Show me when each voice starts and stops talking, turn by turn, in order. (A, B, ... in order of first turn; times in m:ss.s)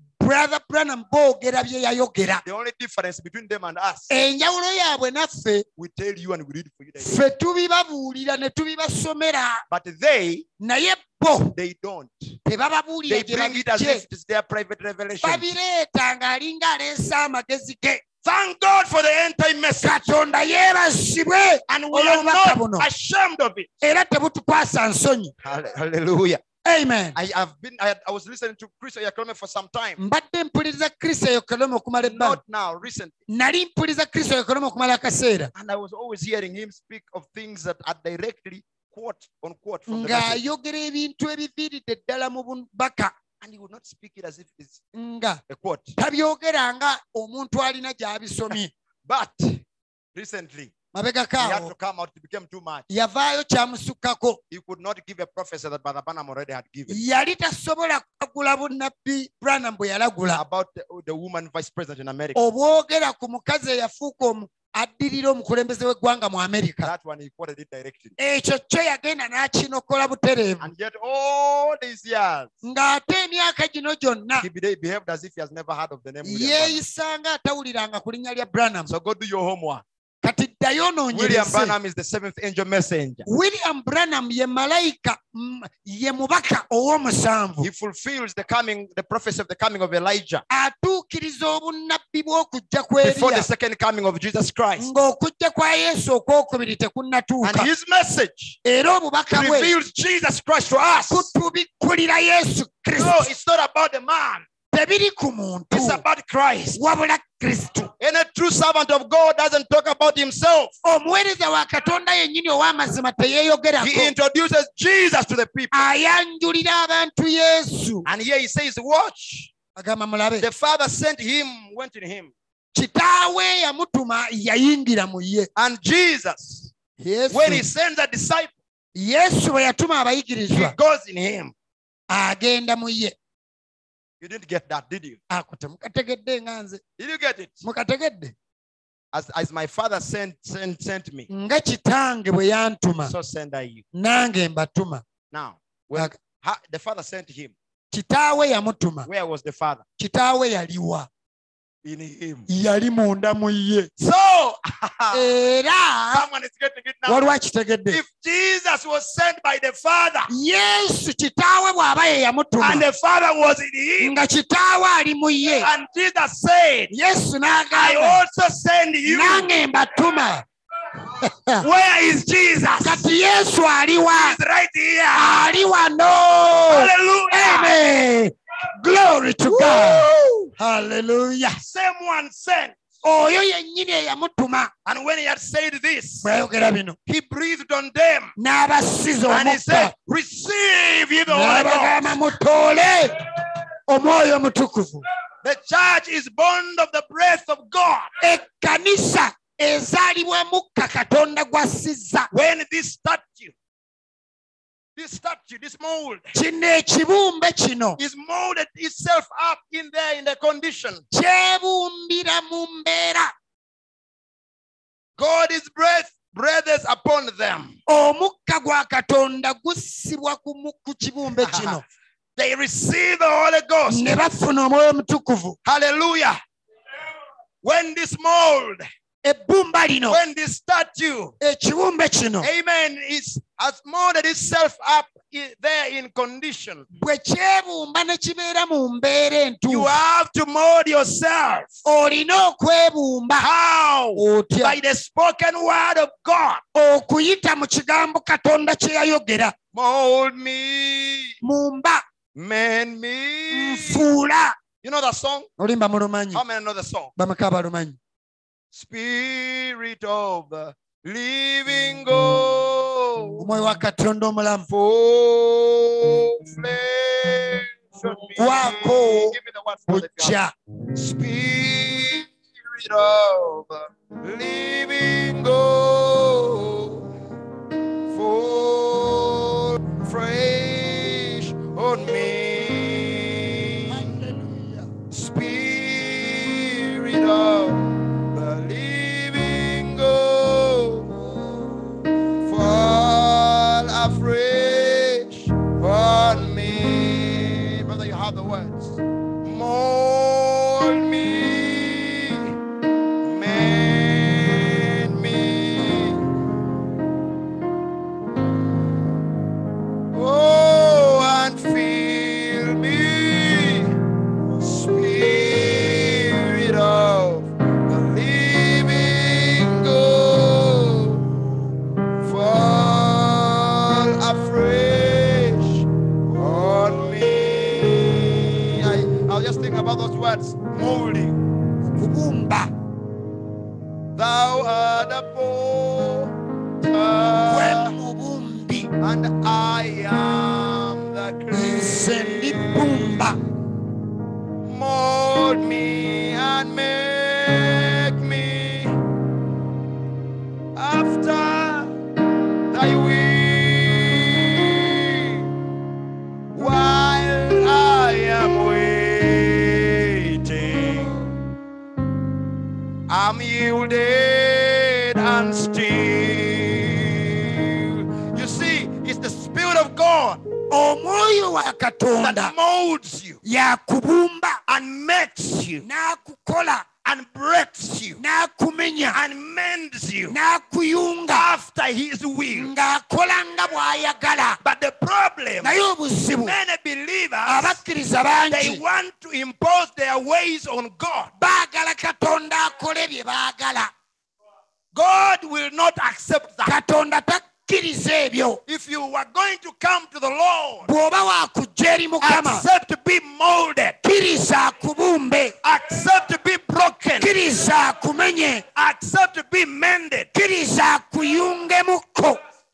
0:00.2-0:02.4 A
0:02.4-0:04.1 B
0:04.1-0:05.6 A
0:05.8-0:07.2 B
0:07.0-0:09.6 A
0:09.7-0:10.4 B
0:10.6-0:11.5 A
0:11.5-0:12.4 B
0:12.4-0:14.0 A
0:13.1-0:15.5 B
0:15.2-0:18.0 A
0:18.2-0:20.1 B
0:19.8-0:22.9 A
0:21.7-0:23.7 B
0:23.8-0:25.3 A
0:25.4-0:26.4 B
0:26.6-0:27.2 A
0:27.1-0:30.0 B
0:30.0-0:32.4 A
0:32.0-0:33.2 B
0:33.3-0:35.5 A
0:35.5-0:40.4 B
0:39.9-0:43.1 A
0:43.4-0:44.8 B
0:44.9-0:45.4 A
0:45.5-0:45.9 B
0:46.0-0:48.7 A
0:49.0-0:49.6 B
0:50.1-0:50.7 B
0:50.9-0:51.7 A
0:51.4-0:52.8 B
0:52.9-0:54.4 A
0:54.5-0:57.0 B
0:56.9-1:00.4 A
1:00.3-1:02.4 B
1:02.3-1:06.9 A
1:06.8-1:08.2 B
1:08.2-1:10.7 A
1:10.6-1:12.5 B
1:12.6-1:14.5 A
1:14.4-1:16.8 B
1:16.2-1:18.9 A
1:18.9-1:19.8 B
1:20.2-1:21.8 A
1:21.1-1:23.3 B
1:23.3-1:27.7 A
1:27.6-1:30.4 B
1:30.5-1:33.5 A
1:33.0-1:34.9 B
1:34.8-1:37.7 A
1:37.4-1:38.6 B
1:38.6-1:39.7 A
1:39.3-1:41.3 B
1:41.1-1:43.3 A
1:43.0-1:44.4 B
1:44.7-1:46.0 A
1:45.7-1:46.8 B
1:46.7-1:47.9 A
1:48.0-1:50.7 B
1:50.8-1:54.1 A
1:53.8-1:55.8 B
1:55.7-1:58.1 A
1:58.0-1:59.5 B
1:59.8-2:00.4 A
2:00.4-2:02.3 B
2:02.7-2:05.5 A
2:05.6-2:06.7 B
2:07.0-2:07.6 A
2:07.3-2:08.5 B
2:08.9-2:10.7 A
2:10.5-2:11.5 B
2:12.1-2:13.1 A
2:14.2-2:15.2 B
2:15.3-2:16.8 A
2:17.0-2:17.6 B
2:17.6-2:18.3 A
2:19.1-2:21.3 B
2:21.3-2:23.1 A
2:23.0-2:23.8 B
2:23.9-2:25.0 A
2:25.3-2:27.5 B
2:27.9-2:29.1 A
2:29.0-2:29.8 B
2:30.0-2:31.1 A
2:31.8-2:32.5 B
2:32.5-2:33.9 A
2:34.0-2:35.2 B
2:35.1-2:36.2 A
2:36.1-2:37.3 B
2:37.1-2:38.0 A
2:37.9-2:40.3 B
2:40.3-2:42.8 A
2:42.6-2:44.2 B
2:44.0-2:45.7 A
2:45.6-2:46.9 B
2:46.9-2:48.2 A
2:47.7-2:49.5 B
2:49.0-2:50.4 A
2:51.2-2:51.6 A
2:51.6-2:53.0 B
2:52.8-2:54.4 A
2:54.1-2:55.5 B
2:55.1-3:00.1 A
2:56.7-2:57.8 B
2:59.4-3:00.5 B
3:00.6-3:01.6 A
3:01.6-3:02.8 B
3:03.0-3:04.7 A
3:04.8-3:06.3 B
3:06.2-3:07.0 A
3:07.1-3:08.3 B
3:08.4-3:09.9 A
3:09.3-3:12.1 B
3:11.3-3:13.2 A
3:13.9-3:15.0 A
3:15.4-3:18.1 B
3:18.2-3:22.3 A
3:22.3-3:23.5 B
3:25.0-3:26.3 B
3:26.3-3:28.0 A
3:28.0-3:31.0 B
3:31.1-3:33.3 A
3:35.2-3:37.8 B
3:37.9-3:41.8 A
3:41.4-3:41.8 B
3:42.4-3:44.1 B
3:43.9-3:45.6 A
3:45.6-3:46.4 B
3:47.6-3:48.8 B
3:49.2-3:50.2 A
3:50.1-3:51.3 B
3:51.4-3:52.5 A
3:52.4-3:56.9 B
3:57.0-3:59.9 A
3:59.7-4:01.8 B
4:01.8-4:03.5 A
4:03.4-4:06.6 B
4:04.2-4:04.8 A
4:06.7-4:09.5 A
4:09.7-4:11.4 B
4:11.4-4:12.0 A
4:12.3-4:14.0 B
4:13.5-4:14.6 A
4:14.8-4:15.5 B
4:15.6-4:16.4 A
4:16.3-4:17.1 B
4:17.2-4:18.0 A
4:18.7-4:23.4 B
4:23.4-4:24.6 A
4:24.7-4:30.4 B
4:28.4-4:29.4 A
4:29.9-4:30.5 A
4:30.9-4:37.1 B
4:38.1-4:44.1 B
4:43.9-4:44.9 A
4:45.1-4:51.6 B
4:52.4-5:02.5 B
5:03.2-5:06.2 B
5:10.1-5:14.0 B
5:14.6-5:21.2 B
5:22.2-5:31.4 B
5:31.9-5:32.7 A
5:34.2-5:37.9 B
5:37.4-5:38.9 A
5:39.0-5:43.3 B
5:41.5-5:43.4 A
5:44.6-5:49.0 B
5:50.8-5:51.9 B
5:52.7-5:55.4 B
5:56.5-6:01.2 B
6:03.1-6:10.4 B
6:10.7-6:12.5 A
6:12.2-6:13.4 B
6:13.4-6:14.6 A
6:14.7-6:15.8 B
6:15.8-6:16.8 A
6:17.0-6:18.2 B
6:18.2-6:19.2 A
6:19.1-6:20.4 B
6:20.3-6:21.5 A
6:21.3-6:22.7 B
6:22.5-6:24.6 A
6:24.6-6:25.8 B
6:25.6-6:26.6 A
6:26.4-6:27.8 B
6:27.4-6:28.8 A
6:28.5-6:31.3 B
6:31.4-6:33.9 A
6:34.9-6:36.8 B
6:36.6-6:38.6 A
6:38.7-6:40.9 B
6:40.8-6:42.6 A
6:42.2-6:44.0 B
6:44.0-6:45.5 A
6:45.6-6:47.3 B
6:47.2-6:48.6 A
6:48.7-6:50.3 B
6:50.3-6:52.4 A